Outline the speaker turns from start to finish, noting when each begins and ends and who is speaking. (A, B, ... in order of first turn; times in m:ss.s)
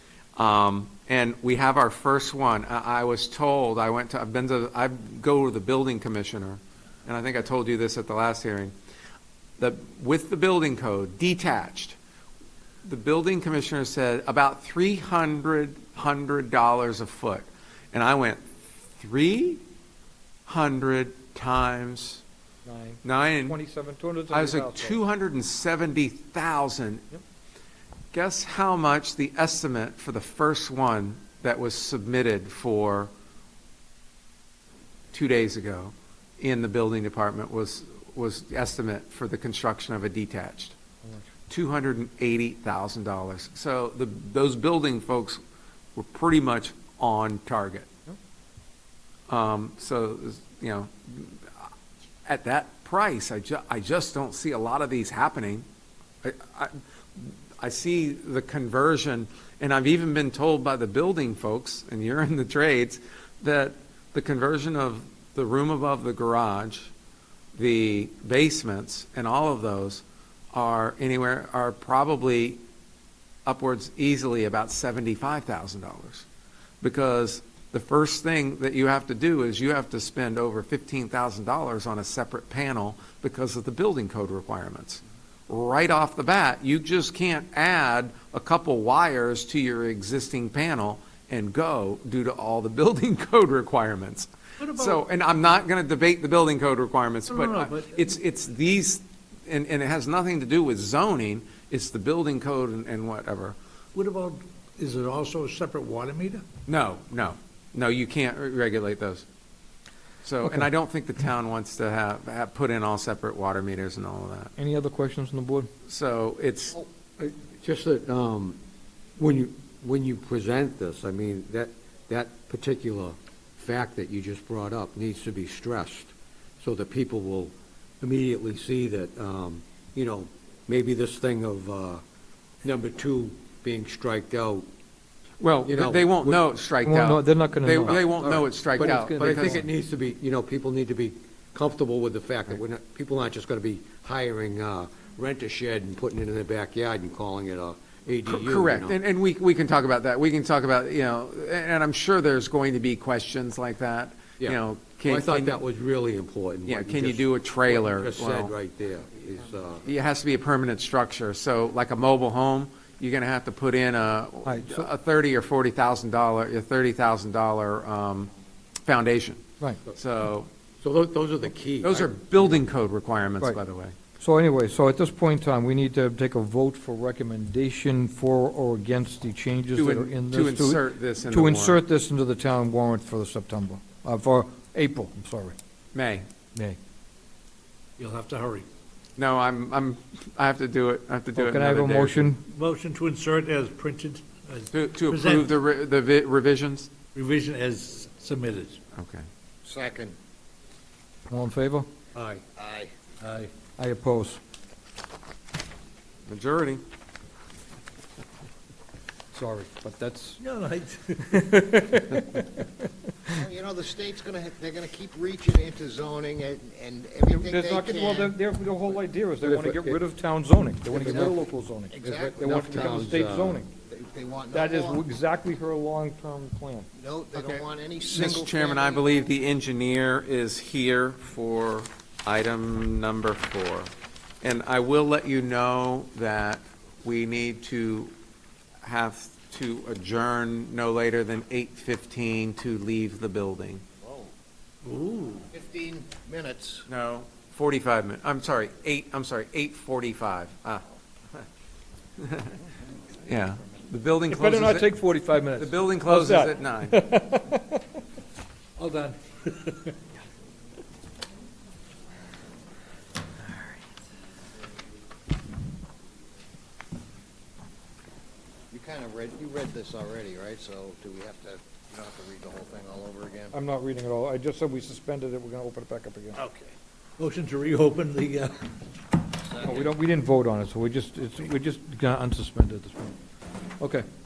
0:00.4-0:08.7 A
0:09.6-0:12.0 A
0:12.8-0:18.4 A
0:19.0-0:19.6 A
0:20.5-0:22.2 A
0:22.7-0:25.0 B
0:23.0-0:23.6 A
0:24.3-0:27.0 A
0:28.1-0:33.1 A
0:35.1-0:40.8 A
0:41.5-0:45.4 A
0:46.0-0:47.9 A
0:49.3-0:51.7 A
0:52.3-0:55.7 A
0:56.2-1:06.9 A
1:07.6-1:12.6 A
1:13.5-1:16.3 A
1:16.8-1:43.6 A
1:34.6-1:35.0 C
1:37.3-1:38.1 C
1:44.0-1:46.4 C
1:46.7-1:49.2 A
1:50.2-1:54.5 A
1:54.6-1:55.7 B
1:55.9-1:56.8 A
1:57.2-1:58.6 D
1:59.2-2:12.0 D
2:12.6-2:14.7 D
2:15.4-2:19.7 A
2:15.7-2:16.4 D
2:16.8-2:18.1 B
2:17.8-2:29.0 D
2:18.8-2:19.7 B
2:28.3-2:35.6 A
2:34.4-2:39.9 D
2:36.7-2:38.6 A
2:39.8-2:48.3 A
2:44.4-2:44.9 B
2:48.9-2:50.5 A
2:50.8-2:52.6 D
2:51.8-2:54.0 A
2:54.2-3:05.6 B
2:59.8-3:01.8 A
3:05.9-3:06.3 A
3:08.0-3:08.7 C
3:09.2-3:12.3 A
3:11.4-3:12.4 B
3:12.5-3:15.5 C
3:14.7-3:16.9 A
3:17.2-3:18.8 C
3:19.0-3:19.3 A
3:19.6-3:20.2 E
3:21.3-3:21.9 B
3:22.2-3:22.4 D
3:22.6-3:22.9 E
3:23.2-3:23.5 C
3:23.8-3:24.4 B
3:26.3-3:26.8 A
3:29.3-3:30.4 B
3:30.4-3:31.4 C
3:31.3-3:32.7 B
3:33.4-3:38.4 E
3:37.3-3:43.7 B
3:39.4-3:40.0 D
3:40.9-3:41.4 D
3:41.9-3:43.0 E
3:42.0-3:43.6 D
3:43.9-3:45.0 E
3:44.5-3:46.9 B
3:47.0-3:49.1 E
3:47.4-3:58.1 A
3:58.8-4:03.8 A
4:04.0-4:04.3 E
4:04.8-4:05.5 C
4:05.5-4:06.9 E
4:06.9-4:10.8 A
4:12.2-4:12.5 A
4:13.2-4:14.9 A
4:14.3-4:17.8 B
4:15.6-4:17.0 A
4:18.8-4:19.9 C
4:28.7-4:33.6 E
4:33.5-4:36.4 B
4:36.4-4:36.8 E
4:37.2-4:38.6 C
4:39.4-4:40.0 E
4:39.6-4:43.2 B